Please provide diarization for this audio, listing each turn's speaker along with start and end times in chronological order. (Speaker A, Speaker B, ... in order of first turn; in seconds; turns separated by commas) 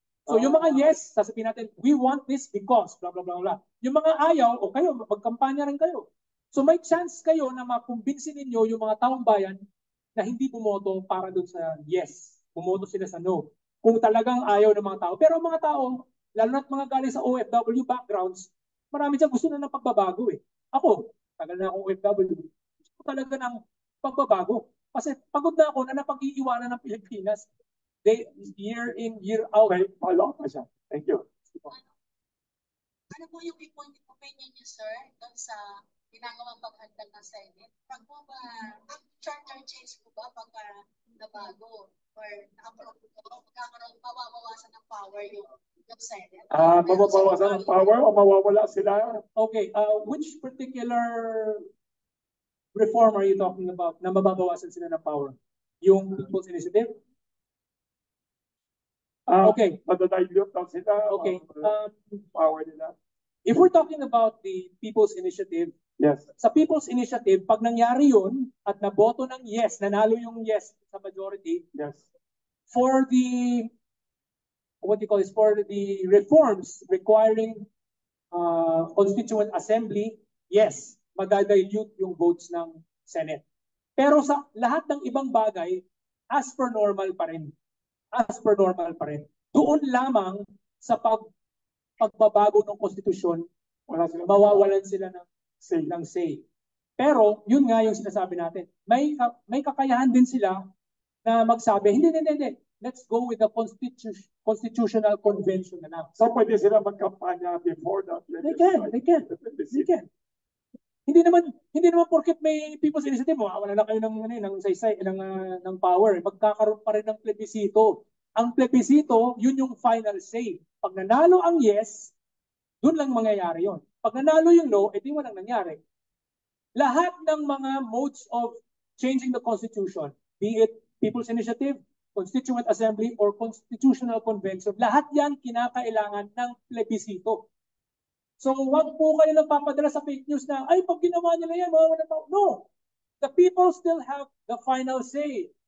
Speaker A: 0.3-9.6, Speaker B: 0.3-0.6, Speaker A: 10.2-27.5, Speaker A: 28.0-29.8, Speaker B: 29.7-31.2, Speaker C: 33.1-47.9, Speaker B: 46.5-49.2, Speaker A: 49.4-51.6, Speaker A: 52.7-57.0, Speaker B: 59.3-61.7, Speaker A: 59.4-59.8, Speaker A: 61.0-62.2, Speaker B: 62.3-62.9, Speaker A: 63.5-65.7, Speaker B: 66.0-66.3, Speaker A: 66.4-71.6, Speaker B: 71.7-72.0, Speaker A: 72.7-73.7, Speaker A: 74.8-77.7, Speaker A: 78.3-83.4, Speaker A: 84.0-87.5, Speaker A: 88.1-91.3, Speaker A: 92.0-93.5, Speaker B: 93.9-94.7, Speaker A: 94.2-95.3, Speaker B: 95.6-95.9, Speaker A: 95.8-96.4, Speaker A: 97.0-100.6, Speaker A: 101.2-106.2, Speaker B: 106.2-109.9, Speaker A: 108.4-110.1, Speaker A: 111.0-122.1, Speaker A: 122.8-125.8, Speaker A: 126.8-137.5, Speaker A: 138.4-142.7, Speaker A: 143.2-145.5